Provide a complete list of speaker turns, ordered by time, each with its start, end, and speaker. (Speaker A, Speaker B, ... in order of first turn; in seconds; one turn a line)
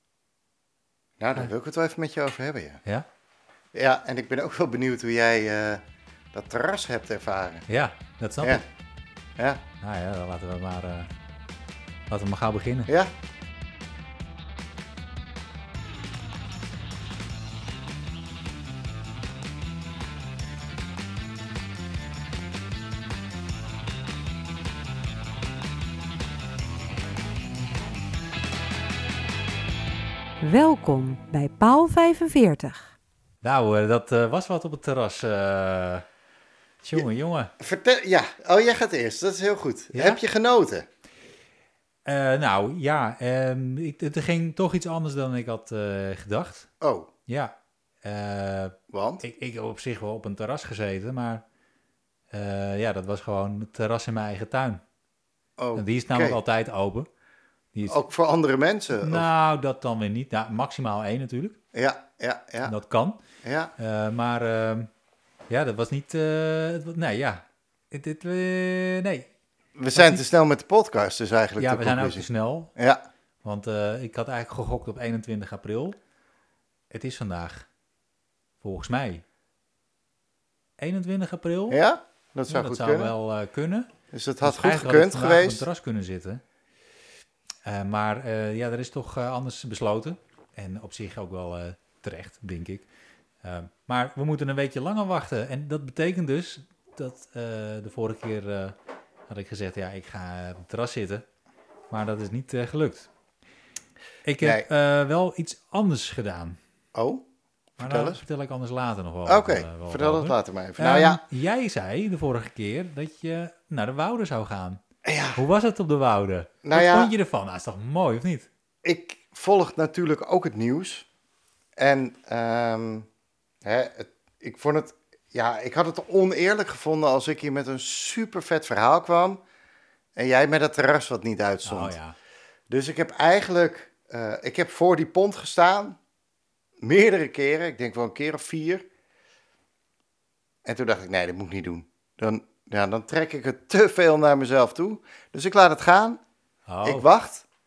Speaker A: 1.2-2.8
Speaker A: 3.7-7.7
Speaker B: 7.7-8.6
Speaker A: 9.4-9.6
Speaker B: 9.8-11.1
Speaker B: 12.1-12.9
Speaker C: 30.4-32.9
Speaker B: 33.4-36.1
Speaker B: 36.8-37.5
Speaker A: 37.6-40.9
Speaker B: 39.9-40.2
Speaker B: 42.1-46.7
Speaker A: 46.8-47.1
Speaker B: 47.3-51.4
Speaker A: 48.9-49.2
Speaker B: 52.3-54.8
Speaker A: 55.6-56.4
Speaker B: 55.8-57.1
Speaker B: 57.7-58.0
Speaker A: 57.9-59.3
Speaker B: 59.0-61.6
Speaker A: 61.7-62.7
Speaker B: 62.6-63.2
Speaker A: 63.4-63.7
Speaker B: 63.8-64.9
Speaker B: 65.5-69.3
Speaker A: 69.8-73.0
Speaker B: 70.0-70.3
Speaker B: 71.6-72.7
Speaker B: 73.4-76.0
Speaker B: 76.9-77.7
Speaker B: 78.6-79.2
Speaker B: 80.8-81.8
Speaker A: 81.7-83.1
Speaker B: 82.5-83.9
Speaker A: 84.1-85.7
Speaker B: 84.4-86.4
Speaker B: 87.7-92.9
Speaker B: 93.4-98.8
Speaker B: 99.3-101.2
Speaker B: 101.9-103.1
Speaker B: 104.2-106.6
Speaker A: 106.9-107.2
Speaker A: 107.8-108.2
Speaker B: 107.8-114.8
Speaker A: 109.3-111.2
Speaker A: 115.0-115.4
Speaker B: 115.3-118.5
Speaker A: 116.6-117.1
Speaker A: 118.8-121.1
Speaker A: 121.8-123.1
Speaker A: 123.6-129.4
Speaker A: 130.2-132.0
Speaker B: 131.6-132.2
Speaker A: 132.7-136.0
Speaker A: 136.8-138.8
Speaker A: 140.7-146.2
Speaker B: 146.7-147.1
Speaker A: 146.8-147.4